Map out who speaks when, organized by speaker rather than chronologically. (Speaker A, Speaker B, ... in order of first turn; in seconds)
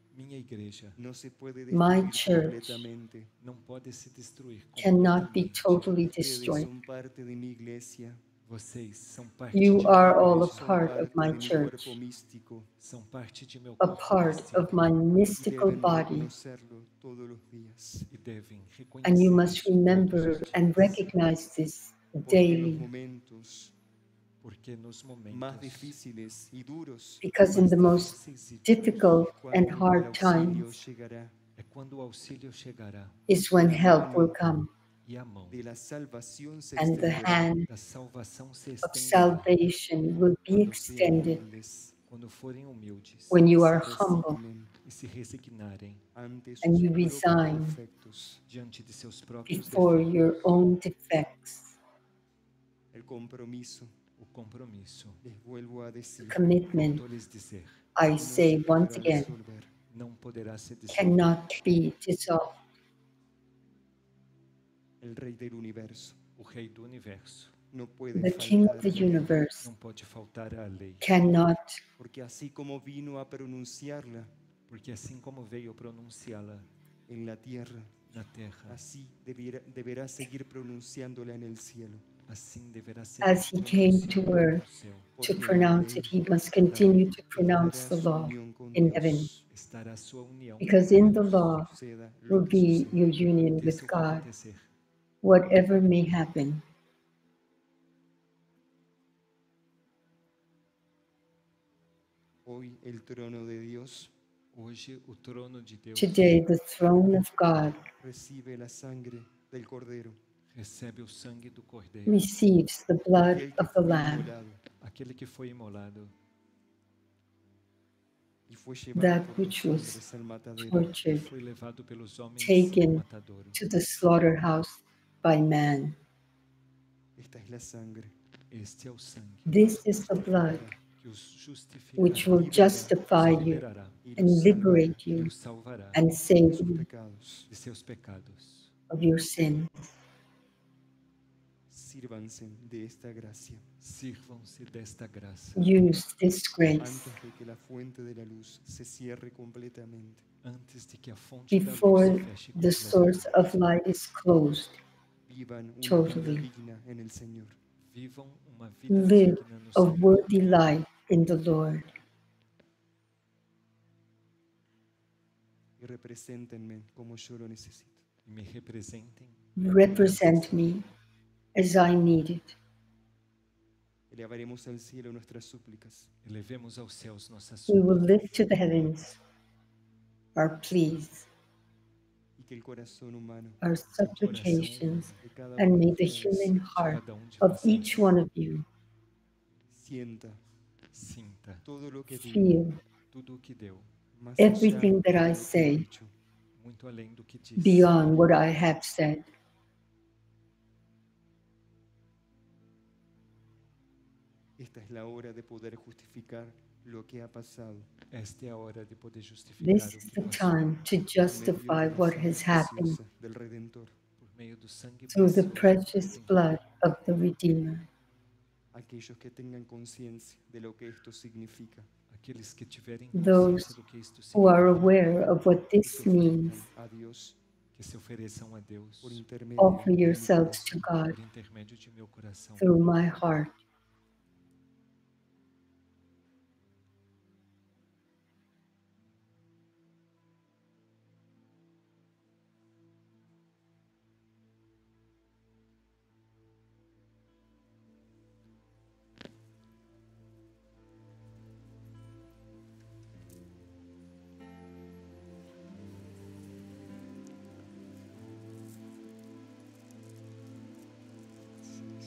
Speaker A: 0.1-1.0, 3.4-6.0, 8.4-10.7, 12.8-14.8, 18.1-20.8, 24.4-25.9, 27.4-28.7, 31.6-33.2, 35.0-35.6, 37.7-39.5, 42.1-43.5, 44.8-46.0, 48.5-50.1, 54.2-55.2, 56.7-57.8, 59.9-61.2, 66.3-67.5, 69.6-71.1, 74.7-76.7, 78.1-78.8, 82.3-85.1, 89.5-91.2, 93.5-94.7, 104.5-106.4, 110.5-112.2, 114.8-116.1, 121.1-123.6, 128.5-129.8, 130.8-134.1, 134.6-136.0, 137.5-138.7, 143.8-145.8, 150.4-153.3, 157.8-160.5, 168.2-170.4, 176.2-178.0, 183.9-185.2, 186.6-188.0, 190.9-191.6, 193.1-193.9, 196.5-197.9, 208.1-210.6, 214.2-216.4, 222.1-225.0, 227.7-229.2, 231.1-232.7
Speaker B: 1.0-3.3, 6.1-8.2, 9.9-12.7, 15.3-18.1, 22.2-23.7, 25.3-27.3, 29.1-31.3, 33.6-34.4, 35.5-37.5, 40.5-41.9, 43.5-44.8, 46.1-48.4, 52.9-53.9, 55.2-56.5, 58.1-59.7, 65.0-66.2, 67.7-69.3, 72.0-74.3, 77.1-78.1, 78.7-82.1, 85.2-89.5, 91.1-93.0, 102.4-104.1, 108.0-110.2, 113.2-114.6, 118.5-120.9, 127.2-128.1, 130.3-130.8, 132.1-133.0, 134.0-135.0, 136.3-137.5, 141.7-143.7, 146.8-150.2, 155.2-157.6, 165.8-168.0, 174.1-176.1, 182.4-183.6, 185.1-186.5, 189.7-190.4, 191.6-192.6, 194.1-196.1, 204.6-207.9, 211.2-213.9, 218.7-221.9, 225.8-227.4, 229.0-230.8
Speaker C: 1.7-2.8, 4.8-6.7, 9.5-11.9, 13.8-16.3, 19.0-22.9, 27.2-30.7, 33.3-34.7, 36.8-37.7, 38.8-41.4, 43.3-44.4, 46.6-47.8, 49.5-51.8, 56.2-57.0, 58.0-59.3, 60.9-62.6, 68.1-69.7, 71.0-71.8, 83.2-84.6, 85.2-89.3, 90.6-91.7, 92.3-94.2, 95.2-96.6, 106.0-107.9, 112.0-114.3, 118.9-120.0, 120.6-121.2, 122.4-123.0, 123.5-126.0, 129.4-130.7, 132.0-133.6, 134.2-135.3, 135.9-136.8, 138.9-139.9, 145.6-147.1, 151.5-154.8, 155.8-156.5, 158.9-161.9, 169.6-170.8, 171.5-172.6, 177.7-179.2, 180.3-181.2, 183.6-188.7, 192.1-192.8, 194.4-195.9, 197.6-199.3, 209.6-213.0, 215.1-217.9, 223.1-223.7, 224.3-226.7, 229.6-231.2, 232.6-233.6